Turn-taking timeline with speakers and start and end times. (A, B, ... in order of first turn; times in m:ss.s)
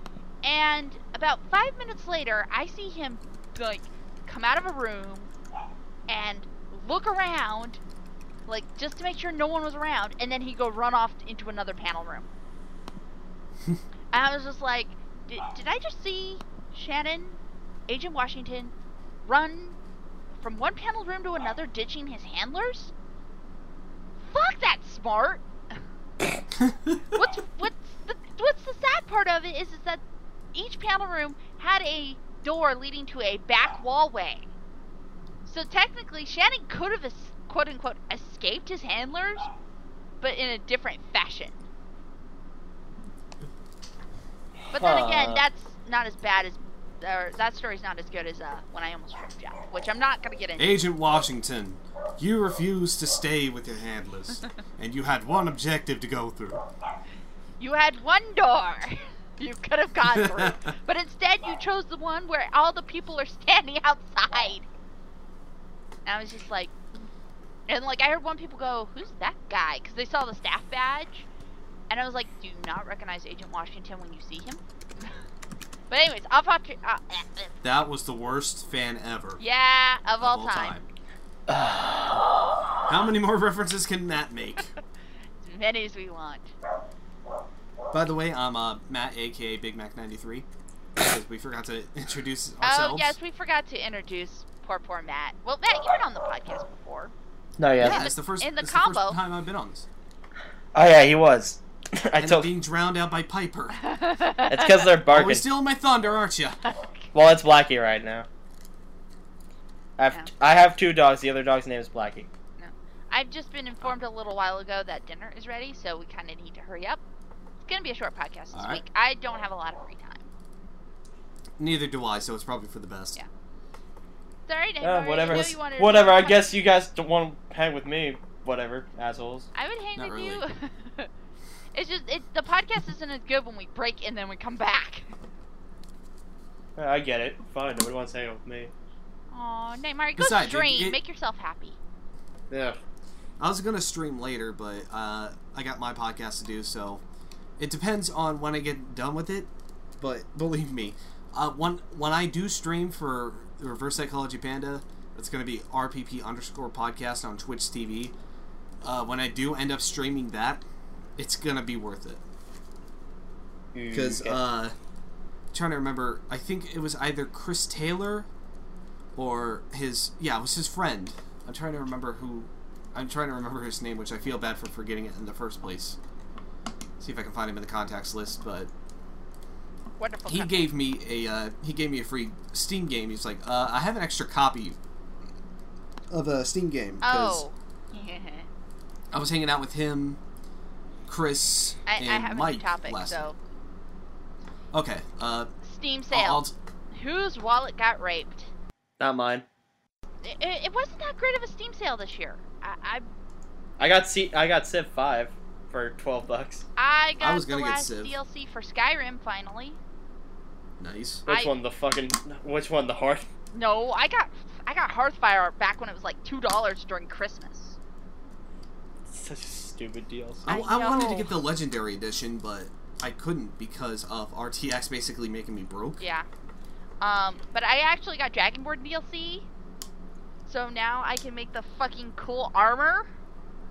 0:00.4-0:05.3 A
0:06.1-0:07.8 A
0:08.5-0:12.3 A
0:14.1-0:18.7 A
0:19.2-0:19.8 A
0:20.4-0:22.9 A
0:24.3-0:25.4 A
0:26.6-0:27.2 B
0:27.1-0:30.0 A
0:30.5-0:34.5 A
0:35.5-0:39.5 A
0:40.2-0:41.7 A
0:44.7-0:45.4 C
0:44.7-0:50.9 A
0:50.6-0:56.6 B
0:57.6-1:04.7 A
1:00.1-1:00.7 B
1:06.1-1:06.7 A
1:07.7-1:11.3 A
1:11.9-1:15.2 A
1:15.9-1:17.5 A
1:17.6-1:19.4 B
1:19.4-1:20.8 A
1:20.2-1:20.9 B
1:21.5-1:22.4 C
1:22.9-1:24.7 B
1:25.4-1:26.5 A
1:27.9-1:30.5 B
1:31.0-1:33.2 B
1:32.6-1:37.1 A
1:37.6-1:38.1 C
1:37.8-1:39.9 B
1:37.8-1:39.2 A
1:40.7-1:42.5 C
1:42.2-1:43.8 B
1:43.8-1:44.9 A
1:44.5-1:45.4 C
1:45.1-1:46.6 B
1:46.6-1:47.1 A
1:47.1-1:48.3 C
1:50.0-1:52.3 C
1:52.6-1:57.0 A
1:57.7-2:00.3 A
1:58.5-1:58.8 B
2:01.6-2:03.2 B
2:04.5-2:06.5 A
2:04.8-2:09.5 C
2:05.3-2:05.6 B
2:09.6-2:11.1 A
2:10.0-2:10.4 B
2:11.7-2:15.1 A
2:16.8-2:18.7 C
2:19.3-2:21.8 A
2:20.2-2:21.0 B
2:22.5-2:22.8 C
2:23.4-2:27.0 B
2:27.6-2:38.2 B
2:38.8-2:40.6 B
2:41.2-2:42.2 B
2:43.7-2:44.4 C
2:43.9-2:44.7 B
2:45.5-2:48.3 B
2:49.2-2:56.0 B
2:57.0-2:58.7 B
3:00.0-3:00.7 A
3:00.3-3:04.8 B
3:06.1-3:07.4 B
3:07.0-3:08.5 A
3:09.1-3:10.2 B
3:11.1-3:13.2 B
3:11.9-3:13.4 A
3:14.7-3:15.5 B
3:15.6-3:18.5 A
3:16.1-3:16.5 B
3:19.0-3:19.5 C
3:20.2-3:23.1 A
3:23.8-3:26.6 C
3:26.8-3:29.8 A
3:27.2-3:28.2 B
3:30.8-3:31.2 B
3:31.3-3:33.3 C
3:33.5-3:37.8 A
3:39.1-3:40.5 C
3:40.4-3:46.0 B
3:40.5-3:41.4 A
3:46.0-3:46.3 A
3:47.0-3:49.5 A
3:50.5-3:53.1 A